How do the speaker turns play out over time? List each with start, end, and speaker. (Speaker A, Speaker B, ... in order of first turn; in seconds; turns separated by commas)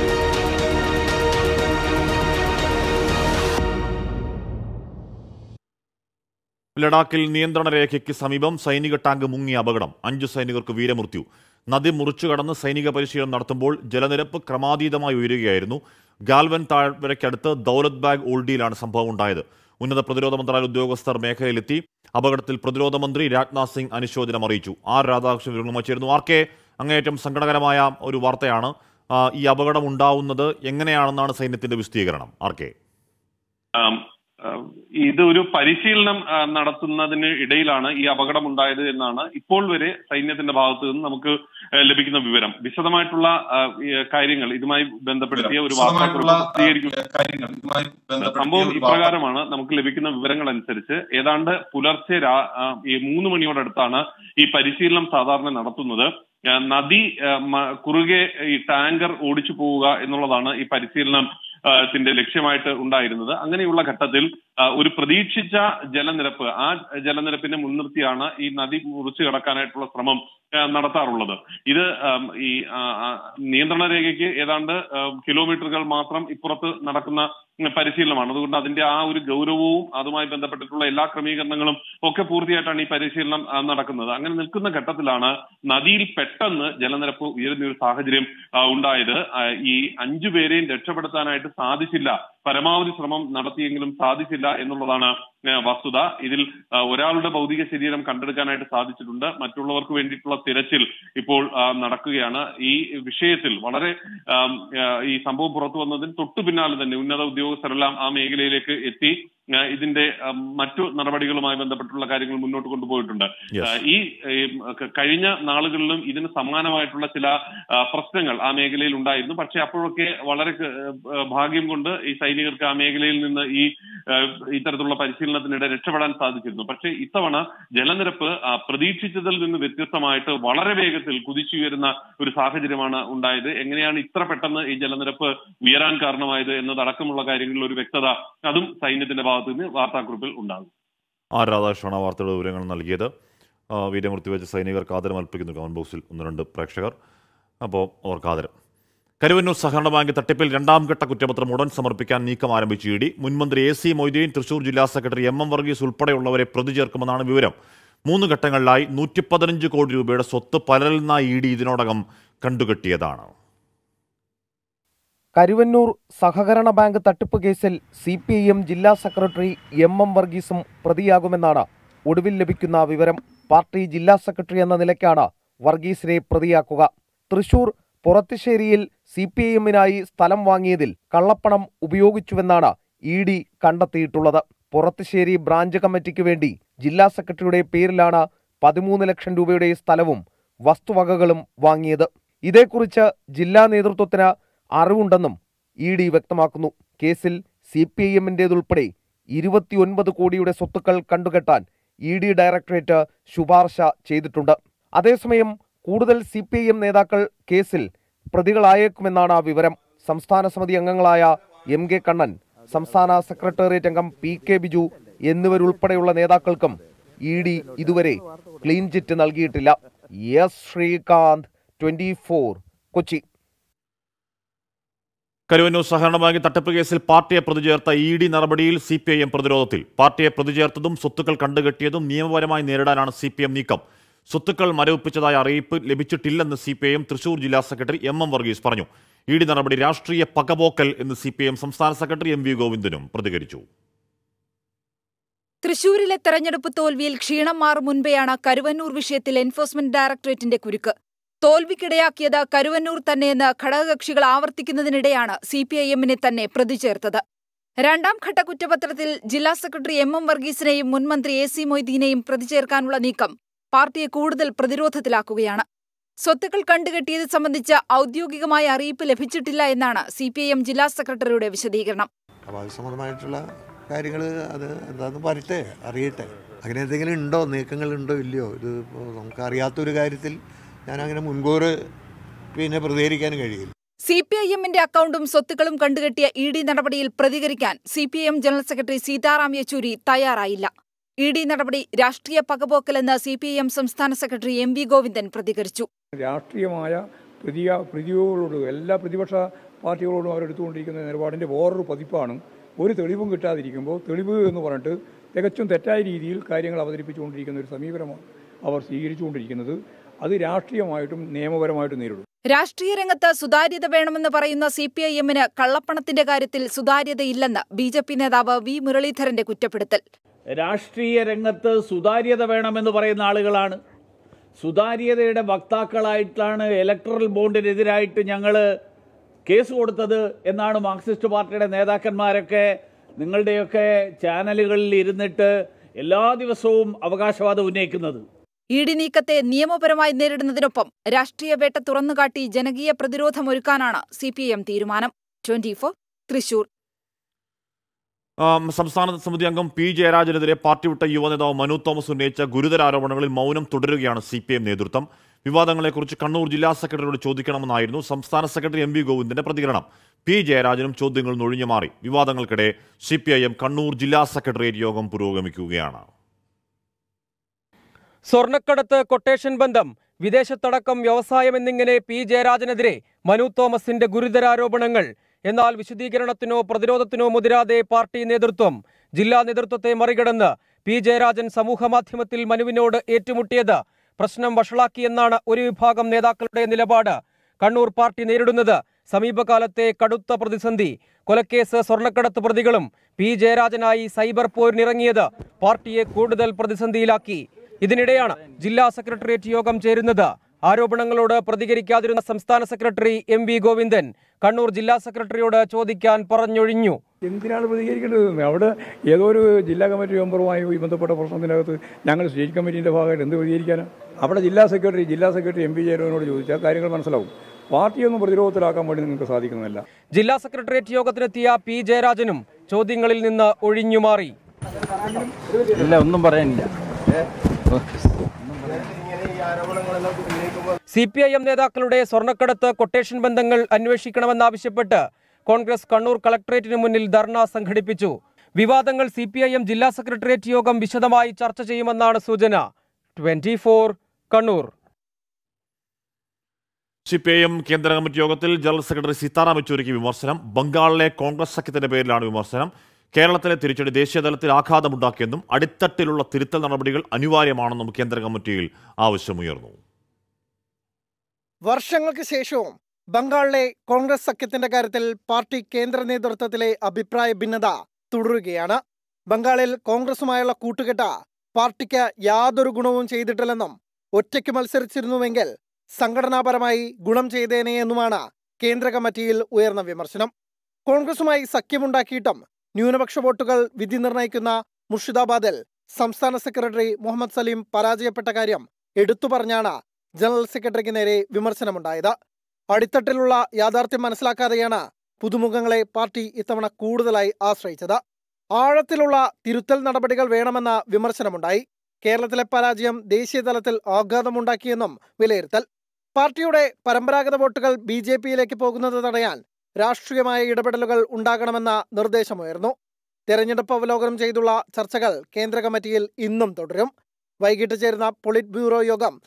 Speaker A: 6.8-32.7, Speaker B: 33.8-46.9, Speaker C: 45.3-49.1, Speaker B: 48.3-109.1, Speaker B: 109.7-117.3, Speaker A: 113.5-113.8, Speaker B: 117.9-120.7, Speaker B: 121.3-140.7, Speaker A: 141.3-143.1, Speaker A: 143.7-146.9, Speaker A: 147.6-148.5, Speaker A: 149.2-157.5, Speaker A: 158.1-163.3, Speaker D: 165.4-219.8, Speaker D: 220.3-223.2, Speaker A: 225.5-243.7, Speaker E: 245.6-257.2, Speaker E: 257.8-265.6, Speaker E: 266.2-272.1, Speaker F: 272.5-281.8, Speaker F: 282.6-283.7, Speaker E: 284.1-290.7, Speaker E: 291.2-295.9, Speaker G: 296.2-312.2, Speaker E: 312.5-320.0, Speaker H: 320.6-323.8, Speaker H: 324.6-328.6, Speaker H: 329.4-338.2, Speaker E: 338.7-346.7, Speaker A: 348.4-366.1, Speaker I: 368.3-407.0, Speaker G: 407.2-419.8, Speaker I: 420.1-424.4, Speaker C: 425.8-426.6, Speaker I: 430.9-442.7, Speaker I: 443.2-444.7, Speaker A: 447.1-459.8, Speaker J: 461.7-462.6, Speaker J: 463.2-468.7, Speaker J: 469.4-470.8, Speaker J: 471.6-473.5, Speaker J: 474.6-475.4, Speaker J: 476.1-478.1, Speaker J: 478.8-480.2, Speaker J: 481.0-482.2, Speaker J: 482.8-484.4, Speaker J: 485.0-485.5, Speaker J: 486.1-488.5, Speaker J: 489.1-489.6, Speaker J: 490.2-492.0, Speaker J: 492.8-493.9, Speaker J: 495.3-497.9, Speaker J: 498.6-501.5, Speaker J: 502.1-504.6, Speaker J: 506.2-509.3, Speaker J: 509.9-512.6, Speaker J: 513.4-516.4, Speaker J: 517.5-518.6